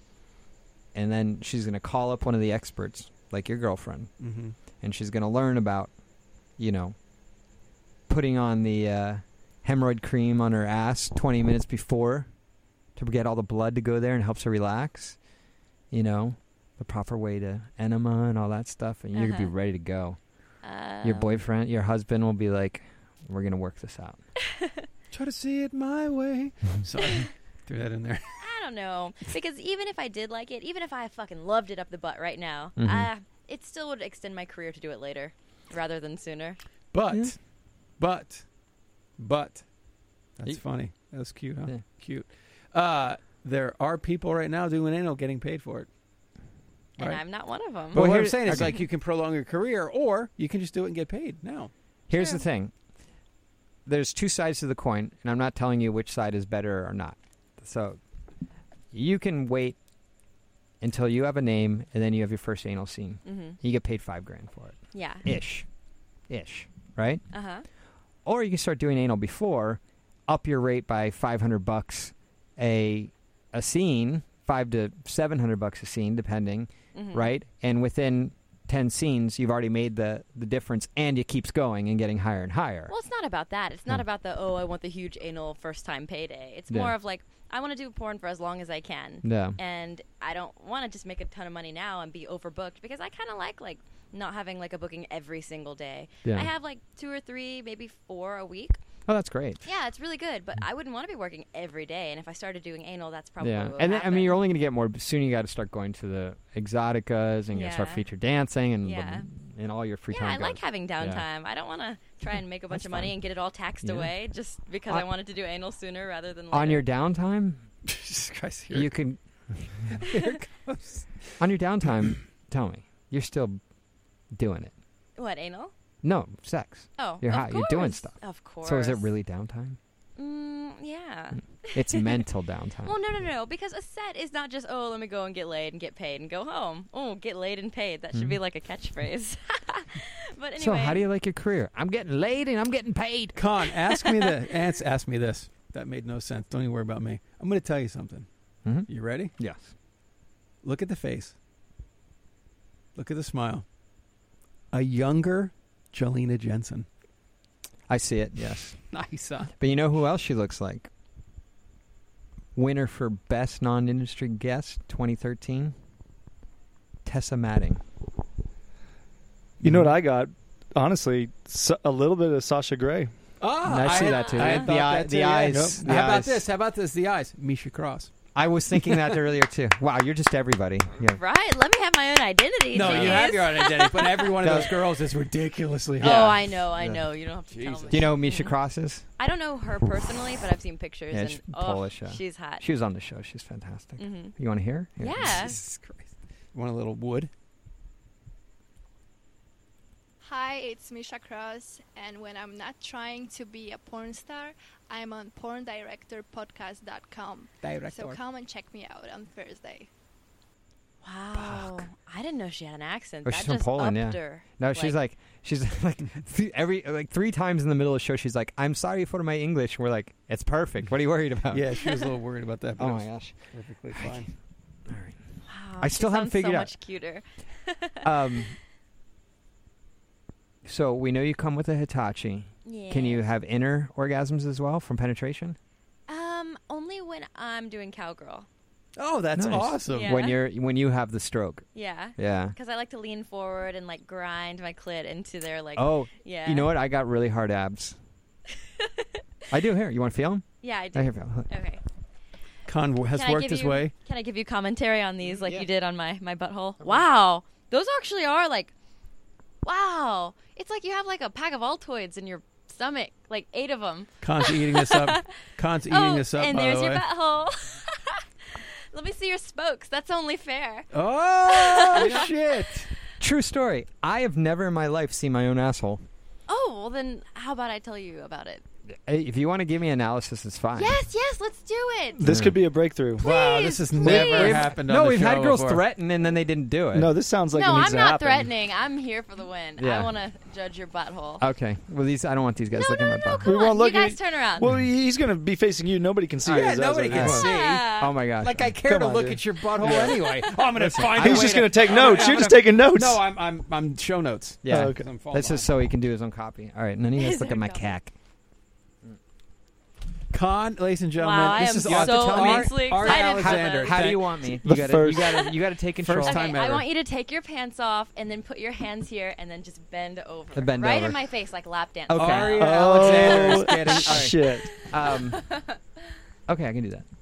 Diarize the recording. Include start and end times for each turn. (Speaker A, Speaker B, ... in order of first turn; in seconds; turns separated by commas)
Speaker A: 0.9-4.2, Speaker B: 4.2-4.5, Speaker A: 4.8-5.9, Speaker A: 6.5-7.0, Speaker A: 8.1-12.3, Speaker A: 12.9-15.2, Speaker A: 15.9-20.2, Speaker C: 19.1-19.5, Speaker C: 20.6-21.4, Speaker A: 21.0-24.2, Speaker B: 25.1-28.4, Speaker C: 28.4-36.6, Speaker A: 32.8-33.1, Speaker B: 36.9-38.5, Speaker B: 39.2-39.7, Speaker B: 40.4-45.9, Speaker C: 47.0-48.8, Speaker B: 47.9-51.7, Speaker A: 47.9-48.8, Speaker A: 52.1-52.7, Speaker C: 52.1-52.4, Speaker A: 53.9-58.0, Speaker A: 58.9-59.8, Speaker A: 60.8-65.7, Speaker C: 63.2-63.6, Speaker C: 64.9-65.3, Speaker A: 66.3-67.2, Speaker C: 67.3-67.7, Speaker A: 68.2-82.9, Speaker C: 76.9-77.3, Speaker C: 82.9-98.8, Speaker A: 89.2-89.6, Speaker A: 96.2-96.5, Speaker A: 99.1-99.6, Speaker C: 99.6-104.4, Speaker A: 103.4-111.2, Speaker C: 107.5-108.0, Speaker C: 108.8-109.3, Speaker C: 110.1-116.9, Speaker A: 112.7-113.2, Speaker A: 113.8-114.1, Speaker A: 116.5-117.7, Speaker B: 117.9-118.9, Speaker A: 118.7-120.0, Speaker B: 119.9-121.3, Speaker A: 121.4-123.6, Speaker A: 124.3-124.7, Speaker C: 125.2-125.7, Speaker A: 126.0-129.8, Speaker C: 127.0-129.1, Speaker C: 130.2-132.2, Speaker A: 131.7-132.9, Speaker C: 132.8-141.1, Speaker A: 140.6-143.4, Speaker B: 143.4-148.3, Speaker A: 148.7-149.7, Speaker B: 148.8-149.3, Speaker B: 150.6-151.3, Speaker B: 152.9-153.7, Speaker B: 154.7-156.9, Speaker A: 157.9-158.8, Speaker B: 158.9-159.5, Speaker A: 159.6-160.9, Speaker A: 162.6-165.8, Speaker A: 167.1-167.8, Speaker D: 169.6-173.1, Speaker A: 169.6-169.9, Speaker B: 173.4-178.1, Speaker A: 173.7-176.4, Speaker C: 174.0-174.6, Speaker D: 175.5-175.8, Speaker A: 178.3-181.2, Speaker C: 181.0-184.3, Speaker B: 182.7-186.4, Speaker A: 182.8-183.3, Speaker A: 184.4-184.7, Speaker A: 186.0-187.0, Speaker C: 186.0-188.5, Speaker B: 187.5-188.1, Speaker A: 187.9-189.1, Speaker C: 189.2-192.7, Speaker A: 191.1-195.6, Speaker C: 194.0-194.3, Speaker C: 195.0-195.6, Speaker B: 195.2-197.3, Speaker E: 200.2-209.9, Speaker B: 207.6-208.2, Speaker C: 211.0-215.0, Speaker A: 211.3-211.9, Speaker A: 213.2-221.7, Speaker B: 221.5-224.3, Speaker A: 222.8-224.2, Speaker A: 224.9-225.2, Speaker C: 225.5-228.4, Speaker A: 225.8-226.7, Speaker A: 228.0-228.6, Speaker A: 230.7-235.6, Speaker C: 232.7-233.3, Speaker C: 236.1-238.5, Speaker B: 239.0-240.1, Speaker A: 239.3-242.6, Speaker C: 239.9-240.4, Speaker C: 241.8-246.7, Speaker A: 245.8-248.0, Speaker C: 248.8-249.1, Speaker A: 249.5-251.5, Speaker C: 250.6-251.8, Speaker B: 252.7-253.9, Speaker C: 253.2-258.7, Speaker A: 255.3-255.7, Speaker A: 256.8-257.1, Speaker C: 259.6-265.3, Speaker B: 264.2-267.0, Speaker C: 265.9-270.9, Speaker B: 270.9-272.9, Speaker C: 271.5-272.3, Speaker A: 273.2-276.1, Speaker C: 276.5-278.6, Speaker A: 278.9-281.0, Speaker C: 280.8-282.2, Speaker D: 282.2-283.3, Speaker A: 282.2-282.6, Speaker C: 283.2-284.7, Speaker B: 283.2-285.8, Speaker D: 284.0-284.6, Speaker A: 284.0-287.1, Speaker D: 286.9-288.5, Speaker C: 287.5-291.4, Speaker A: 289.8-290.1, Speaker A: 291.4-293.5, Speaker C: 292.7-294.7, Speaker D: 293.4-297.5, Speaker B: 296.4-305.7, Speaker A: 296.5-298.7, Speaker C: 297.3-298.1, Speaker D: 298.8-300.2, Speaker A: 300.8-302.5, Speaker D: 301.2-303.2, Speaker A: 304.6-308.1, Speaker D: 304.7-305.1, Speaker C: 307.2-307.9, Speaker B: 310.3-314.4, Speaker C: 311.2-314.0, Speaker A: 311.6-316.5, Speaker D: 314.6-315.5, Speaker B: 316.0-316.9, Speaker C: 316.2-322.7, Speaker A: 320.6-321.2, Speaker A: 322.1-325.5, Speaker B: 322.1-324.3, Speaker D: 322.6-324.9, Speaker C: 324.8-325.8, Speaker A: 326.5-327.1